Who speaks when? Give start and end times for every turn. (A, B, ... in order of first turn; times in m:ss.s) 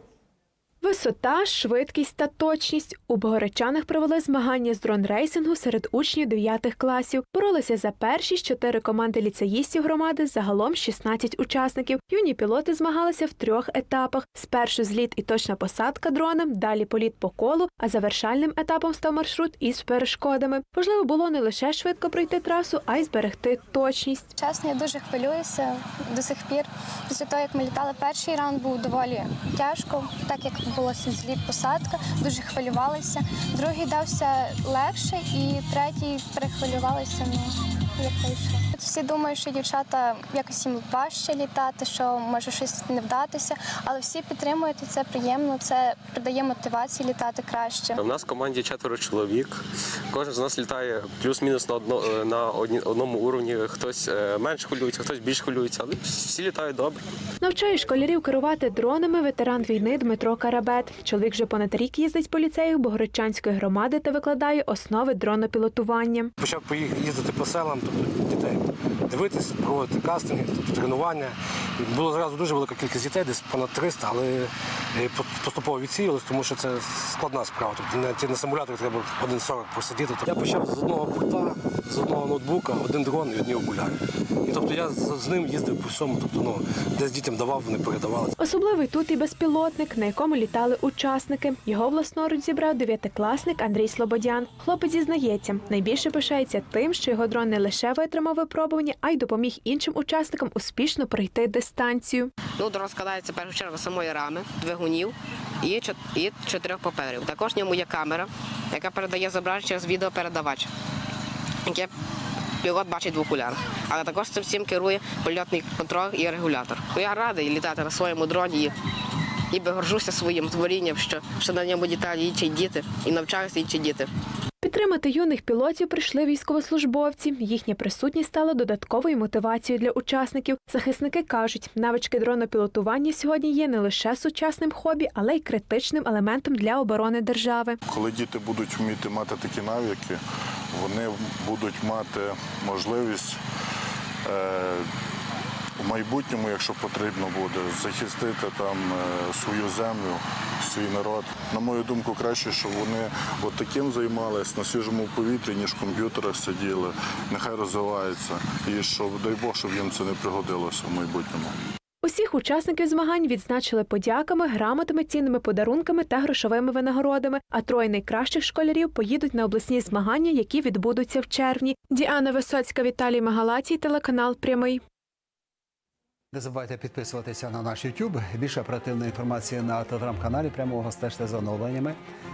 0:00.8-0:24.3 A
0:24.3-0:48.0 B
0:48.0-0:49.6 C
0:50.1-0:57.0 C
0:57.4-1:06.3 A
1:06.4-1:28.3 D
1:28.4-1:42.3 A
1:42.6-1:50.7 E
1:51.6-1:51.9 E
1:52.6-1:58.8 E
1:59.5-2:04.1 E
2:04.6-2:17.8 A
2:17.9-2:20.2 F
2:20.7-2:23.4 F
2:24.2-2:24.9 F
2:25.8-2:41.5 F
2:42.0-2:54.8 A
2:56.3-3:02.0 G